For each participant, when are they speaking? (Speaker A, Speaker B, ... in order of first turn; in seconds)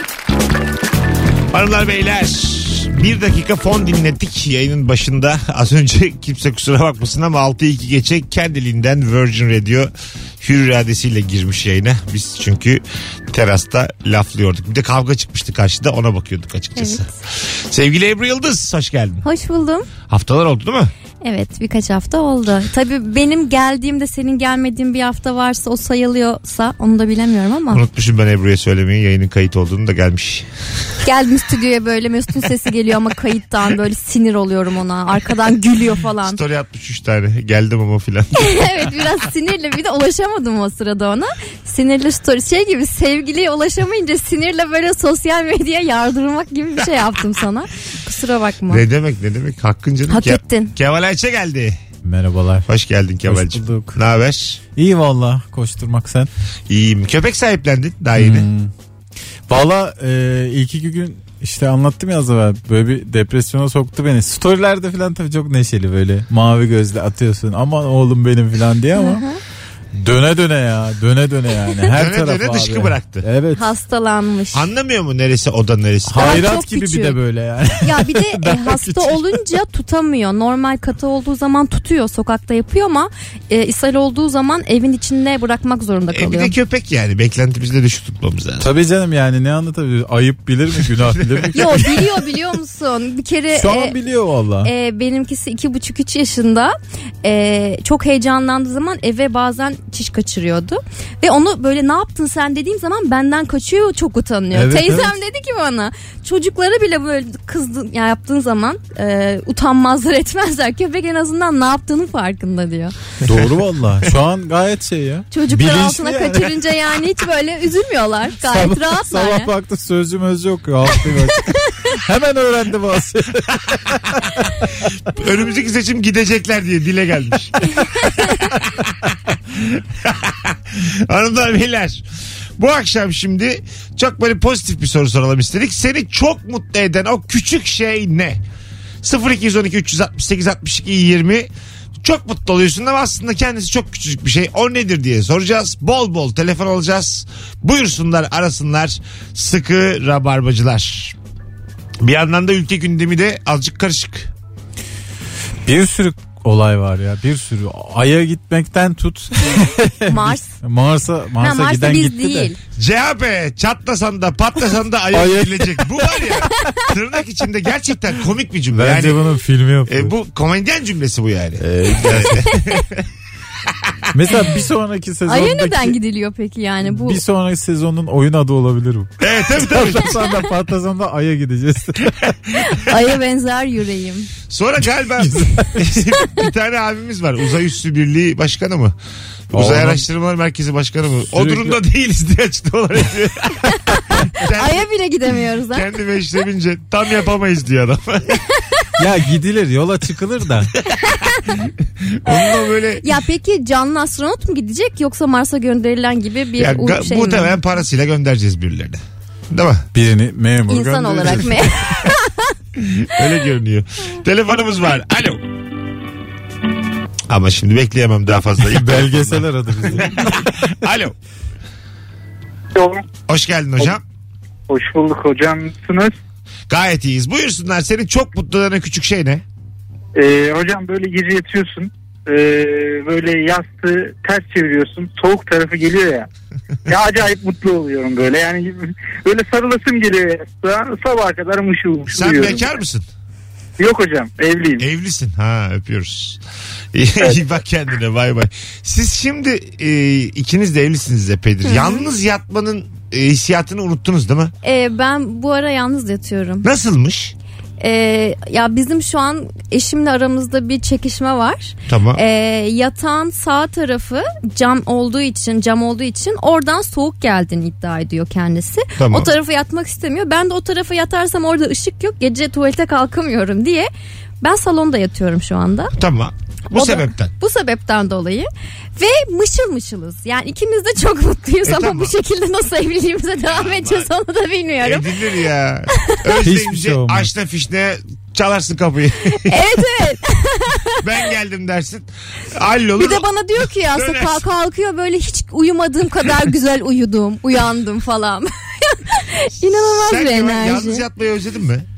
Speaker A: 1.5-19.2, 20.1-20.9, 27.7-30.5, 36.2-38.6, 48.7-51.8, 52.7-54.6, 56.7-58.5, 72.0-73.2, 74.5-76.4, 86.1-88.7, 91.0-91.7, 125.1-128.0, 128.6-132.0, 132.6-138.4, 139.0-141.5, 142.0-151.2, 152.0-154.3, 162.8-169.2, 169.9-173.0, 179.2-180.2, 184.5-188.9, 189.5-193.6, 194.3-194.8, 195.7-198.4, 202.2-203.1, 206.6-209.8, 212.8-215.4, 217.3-221.1, 223.3-224.0, 226.7-229.4, 242.1-243.1, 244.8-246.4, 246.9-254.5, 256.6-257.4, 261.9-262.2, 269.0-269.3, 275.9-277.3, 281.6-282.1, 283.5-284.1, 284.8-289.6, 291.0-294.4, 299.6-301.9
Speaker B: 16.8-17.1, 19.2-19.9, 21.2-27.8, 31.0-36.4, 38.4-48.8, 50.1-50.7, 68.9-69.4, 73.5-74.7, 76.2-77.2, 77.8-86.5, 91.5-94.0, 94.6-112.9, 115.3-119.5, 160.1-160.6, 161.4-162.6, 175.2-177.2, 182.7-184.3, 194.1-195.9, 200.9-201.6, 203.0-207.6, 210.7-212.4, 251.6-252.0, 254.6-256.7, 257.8-273.9, 274.4-275.9, 276.7-285.1, 289.3-291.0, 293.0-301.0
Speaker C: 52.0-52.7, 53.3-54.0, 54.8-56.3, 58.1-58.7, 59.5-69.2, 70.0-73.7, 76.1-79.2, 88.6-92.0, 93.5-94.7, 104.5-105.1, 113.2-116.5, 118.4-124.3, 155.7-162.5, 165.1-165.9, 168.7-170.1, 171.6-172.6, 174.1-175.9, 176.8-182.2, 185.2-185.7, 189.5-190.0, 191.2-191.7, 199.0-200.7, 209.9-211.8, 218.7-220.4, 286.4-287.3
Speaker D: 222.7-223.0, 224.7-226.1, 230.1-236.3, 236.9-242.7, 243.8-244.8